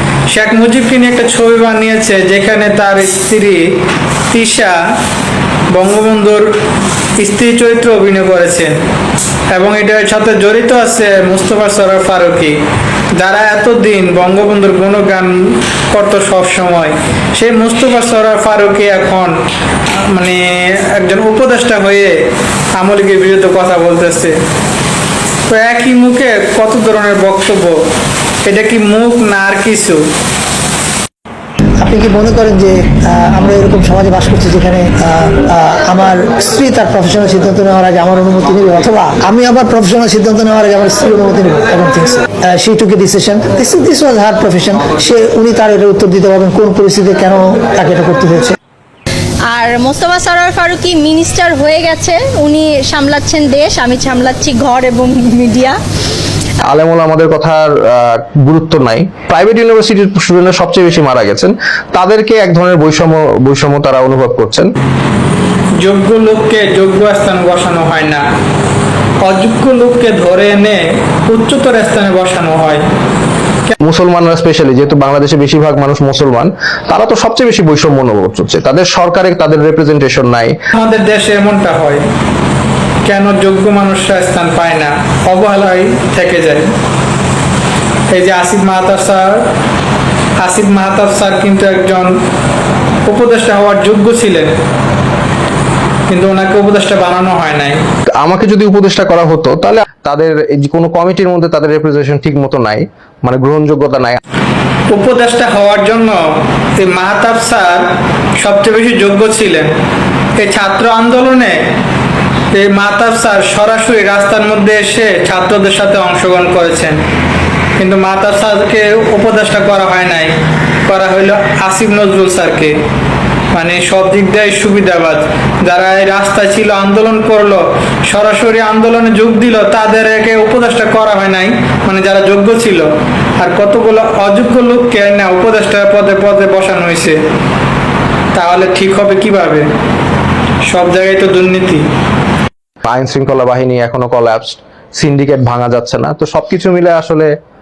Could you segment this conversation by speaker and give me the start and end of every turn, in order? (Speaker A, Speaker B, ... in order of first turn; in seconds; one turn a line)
Speaker A: 0.3-3.6
Speaker A: 4.3-4.8
Speaker A: 5.7-6.5
Speaker A: 7.2-8.8
Speaker A: 9.5-12.6
Speaker A: 13.2-19.4
Speaker A: 20.0-22.2
Speaker A: 22.8-24.4
Speaker A: 25.5-27.8
Speaker A: 28.4-30.0
Speaker B: 31.8-48.5
Speaker C: 49.5-55.8
Speaker D: 56.6-64.7
Speaker A: 65.8-68.2
Speaker A: 69.2-72.8
Speaker D: 73.8-80.5
Speaker A: 80.8-82.0
Speaker A: 83.0-86.7
Speaker A: 88.1-89.4
Speaker A: 90.4-92.1
Speaker A: 93.1-94.5
Speaker A: 96.1-97.8
Speaker D: 98.2-104.2
Speaker A: 104.9-109.7
Speaker A: 110.4-111.7
Speaker A: 112.5-117.0
Speaker A: 117.8-122.8
Speaker A: 123.5-132.9
Speaker A: 133.4-137.2
Speaker A: 138.3-139.7
Speaker A: 140.7-141.8
Speaker D: 142.9-147.3